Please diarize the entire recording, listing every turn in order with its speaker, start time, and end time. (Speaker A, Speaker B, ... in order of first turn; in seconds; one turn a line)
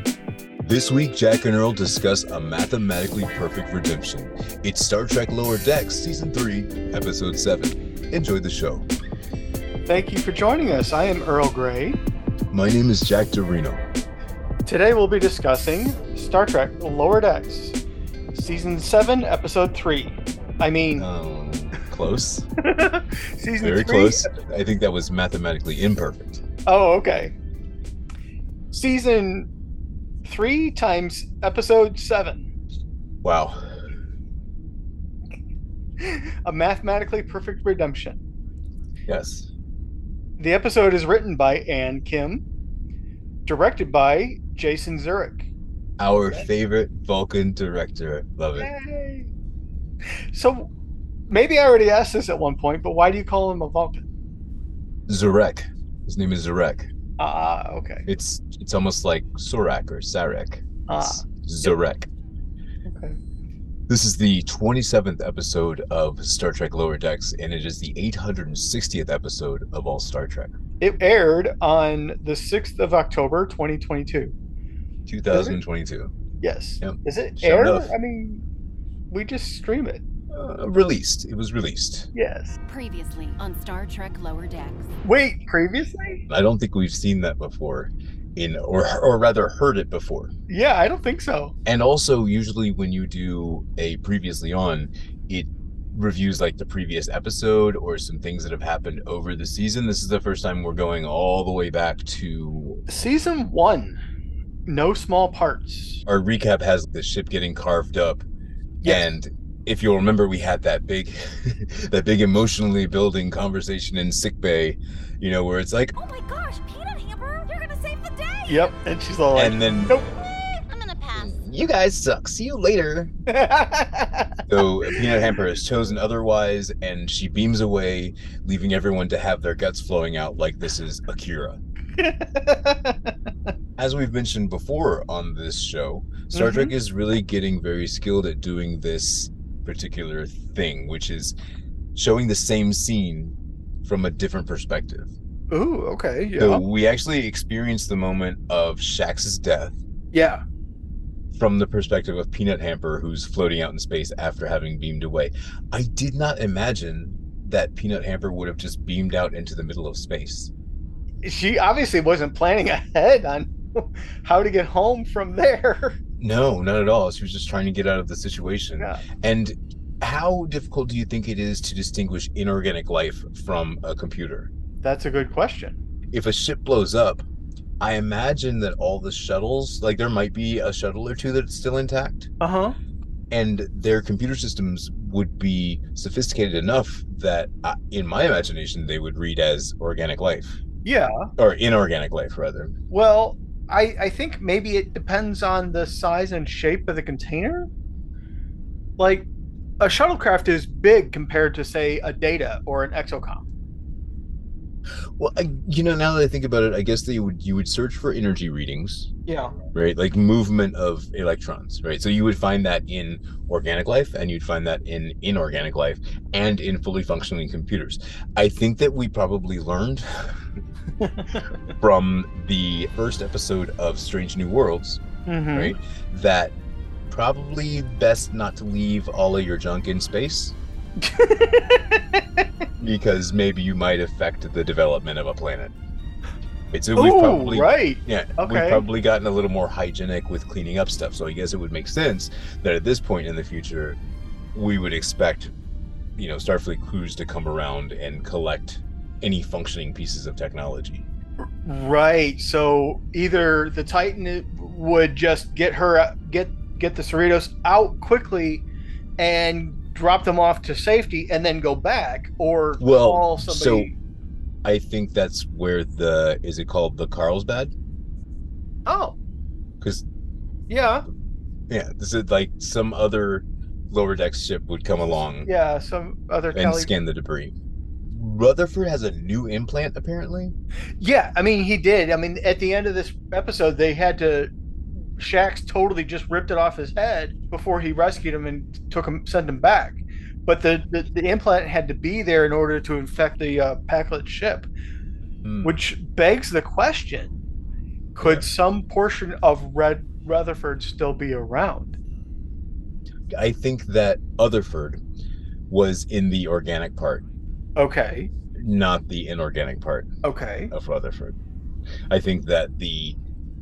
Speaker A: 0.6-8.9
Speaker B: 9.9-12.0
Speaker A: 12.5-13.8
Speaker B: 14.7-17.8
Speaker B: 18.3-21.1
Speaker A: 21.0-22.5
Speaker B: 22.6-24.3
Speaker A: 23.6-26.4
Speaker B: 26.7-27.3
Speaker B: 28.7-29.5
Speaker B: 30.2-32.5
Speaker A: 33.2-33.6
Speaker B: 36.0-38.2
Speaker A: 39.1-39.5
Speaker B: 40.4-42.4
Speaker B: 43.5-45.5
Speaker A: 46.0-48.7
Speaker B: 48.6-49.3
Speaker B: 50.3-50.7
Speaker B: 51.3-54.0
Speaker A: 55.1-56.9
Speaker B: 57.2-58.0
Speaker A: 58.0-62.1
Speaker B: 60.9-61.7
Speaker B: 62.9-63.2
Speaker A: 63.9-70.6
Speaker B: 70.8-74.3
Speaker A: 75.1-76.1
Speaker B: 75.3-75.6
Speaker B: 76.4-78.4
Speaker A: 76.8-77.9
Speaker B: 79.1-80.0
Speaker A: 80.3-82.1
Speaker B: 82.1-82.6
Speaker C: 82.7-84.9
Speaker B: 85.0-86.2
Speaker A: 86.3-90.3
Speaker B: 90.5-91.5
Speaker A: 91.7-102.9
Speaker B: 102.9-104.0
Speaker B: 104.7-106.0
Speaker A: 106.1-108.2
Speaker A: 108.8-116.0
Speaker C: 116.0-118.7
Speaker B: 118.5-120.0
Speaker A: 119.3-119.9
Speaker C: 120.7-121.4
Speaker A: 121.1-123.1
Speaker B: 123.3-124.4
Speaker A: 124.5-131.6
Speaker B: 132.0-133.1
Speaker A: 133.8-141.3
Speaker B: 136.3-136.7
Speaker A: 141.9-145.1
Speaker B: 145.5-146.6
Speaker A: 146.4-149.8
Speaker B: 150.1-150.4
Speaker A: 151.3-160.5
Speaker B: 161.2-166.0
Speaker A: 166.2-174.5
Speaker B: 174.8-175.8
Speaker A: 176.1-177.2
Speaker A: 177.8-182.3
Speaker B: 182.4-182.8
Speaker A: 183.3-190.6
Speaker B: 190.8-191.3
Speaker A: 191.4-192.8
Speaker B: 192.9-197.7
Speaker B: 199.0-199.3
Speaker B: 199.8-203.4
Speaker A: 205.2-209.1
Speaker B: 209.3-209.5
Speaker A: 209.7-220.1
Speaker B: 221.0-221.5
Speaker A: 221.8-225.0
Speaker B: 225.3-225.8
Speaker A: 225.5-226.5
Speaker A: 227.1-230.6
Speaker B: 231.0-232.4
Speaker A: 232.8-235.7
Speaker A: 236.7-244.0
Speaker B: 237.0-238.8
Speaker A: 244.5-245.5
Speaker A: 246.2-251.1
Speaker B: 251.6-258.6
Speaker B: 259.2-263.9
Speaker A: 262.8-263.9
Speaker A: 264.6-267.7
Speaker B: 268.9-269.2
Speaker B: 270.7-271.1
Speaker A: 271.7-275.5
Speaker B: 275.4-276.9
Speaker A: 276.5-277.6
Speaker A: 278.1-280.6
Speaker B: 281.0-284.5
Speaker B: 285.2-294.7
Speaker A: 295.4-295.8
Speaker B: 295.6-297.3
Speaker B: 298.2-302.0
Speaker A: 298.2-298.5
Speaker A: 303.3-305.0
Speaker A: 305.7-307.2
Speaker B: 307.8-308.3
Speaker A: 308.6-310.1
Speaker B: 310.2-310.7
Speaker A: 310.7-311.4
Speaker A: 312.1-313.2